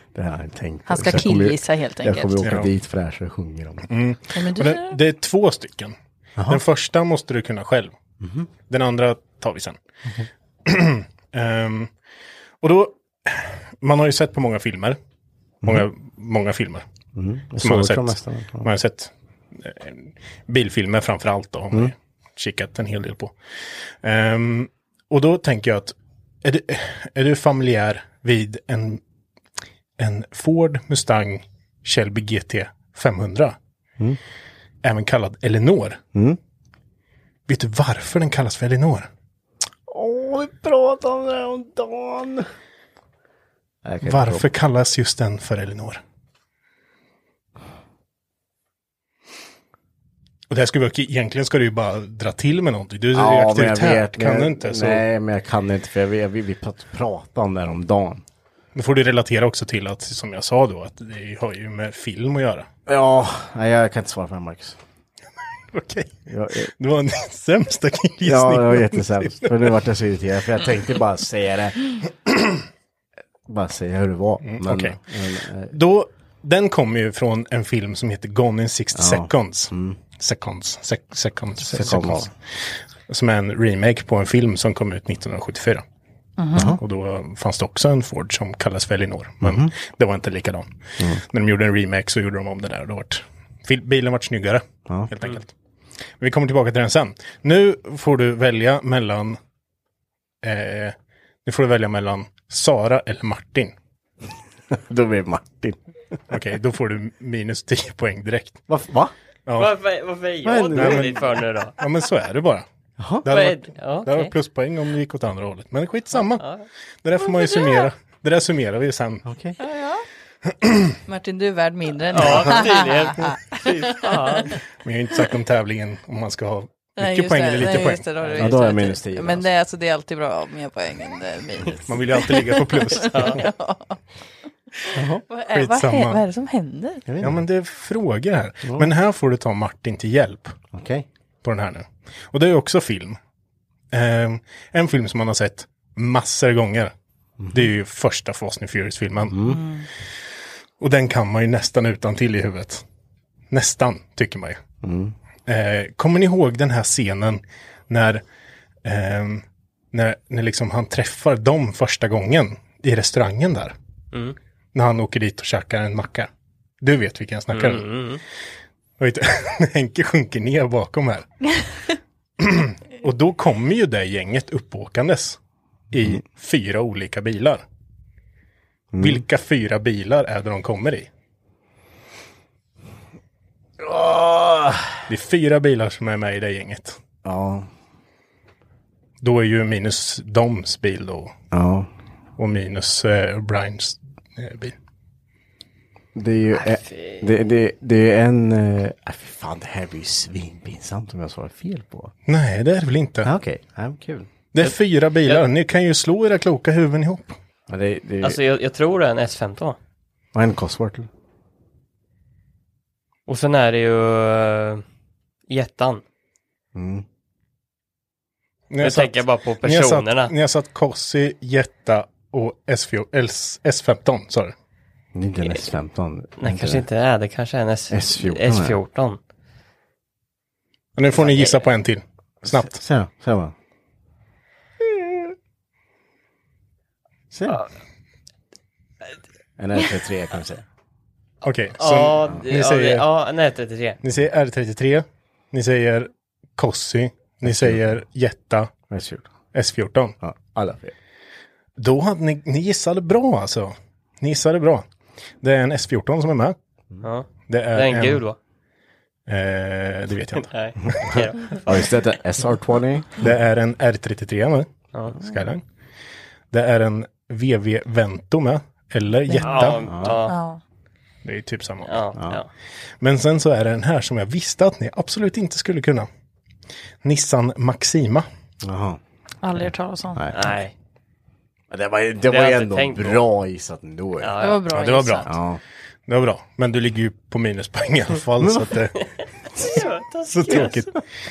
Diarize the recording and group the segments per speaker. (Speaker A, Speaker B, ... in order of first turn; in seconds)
Speaker A: 0.1-3.9, 6.4-6.6, 8.2-8.5, 17.1-18.7, 39.9-42.5, 43.8-44.5, 53.1-58.2, 62.9-64.8, 66.3-66.7, 68.2-71.8, 73.5-75.7, 78.9-80.0, 81.6-82.3, 86.5-86.8, 89.4-89.7, 104.7-105.8, 108.7-109.1, 110.4-111.3, 113.0-113.3, 119.2-119.6, 128.4-129.5, 134.9-135.2, 137.1-137.4, 138.6-138.9, 140.7-141.1, 147.4-147.7, 149.3-149.6, 154.8-155.1, 178.9-179.2, 183.8-185.0, 187.2-187.7, 191.5-191.9, 196.1-202.1, 203.2-204.3, 207.7-208.4, 210.3-211.1, 216.7-217.0, 225.1-226.8, 227.9-228.8, 232.4-233.5, 234.8-235.3, 237.3-237.6, 239.6-240.6, 247.4-247.8, 248.9-249.3, 250.2-250.9, 260.8-263.3, 269.9-270.2, 278.6-279.0, 280.1-280.5, 281.7-284.3, 285.3-285.6, 288.4-288.8, 290.5-290.7
Speaker B: 0.9-2.4, 4.3-5.0, 86.4-86.8, 117.5-117.8, 119.6-120.0, 121.1-124.4, 127.0-134.0, 135.3-137.0, 149.5-149.8, 269.3-269.7, 270.2-270.6, 279.4-280.2, 284.4-285.3
Speaker C: 2.4-2.7, 3.9-5.9, 6.5-7.9, 8.7-9.8, 10.7-11.9, 12.6-15.0, 15.6-16.8, 17.6-23.3, 24.0-29.0, 30.0-33.6, 34.8-36.0, 37.5-39.1, 44.0-46.0, 50.5-55.0, 58.7-62.7, 65.7-69.7, 74.4-75.0, 75.7-82.3, 83.1-85.8, 86.8-90.7, 91.2-95.5, 96.2-99.4, 100.4-103.7, 106.3-108.6, 109.5-109.7, 110.7-112.6, 113.2-116.4, 117.0-119.2, 120.6-120.9, 124.8-128.0, 131.9-133.5, 135.5-136.2, 137.2-140.6, 141.4-143.2, 143.9-146.9, 147.5-149.6, 150.8-152.8, 153.5-154.6, 155.5-158.2, 158.8-163.7, 164.7-166.3, 166.8-168.0, 169.0-171.4, 172.4-175.4, 175.9-177.6, 179.0-181.1, 185.1-187.0, 189.2-191.3, 192.4-194.7, 202.2-203.3, 204.5-207.3, 218.7-224.5, 231.0-232.8, 241.4-243.1, 244.0-248.7, 249.5-250.1, 251.8-254.8, 255.4-256.6, 257.5-258.2, 259.3-261.1, 263.2-265.6, 266.5-269.8, 271.2-272.0, 273.0-276.1, 277.0-278.2, 284.7-285.3, 286.1-288.9, 290.3-290.9
Speaker D: 109.5-111.8, 113.3-114.3, 116.2-116.7, 122.1-124.5, 128.2-128.7, 133.0-133.4, 167.5-168.2, 196.6-197.3, 208.2-209.8, 213.3-214.8, 215.5-216.0, 218.8-220.3, 226.4-229.2, 231.2-231.6, 241.8-244.0, 257.0-258.4, 260.4-261.9, 269.4-270.4, 271.8-272.5, 280.3-280.7, 282.2-283.2, 284.2-284.8, 289.6-290.8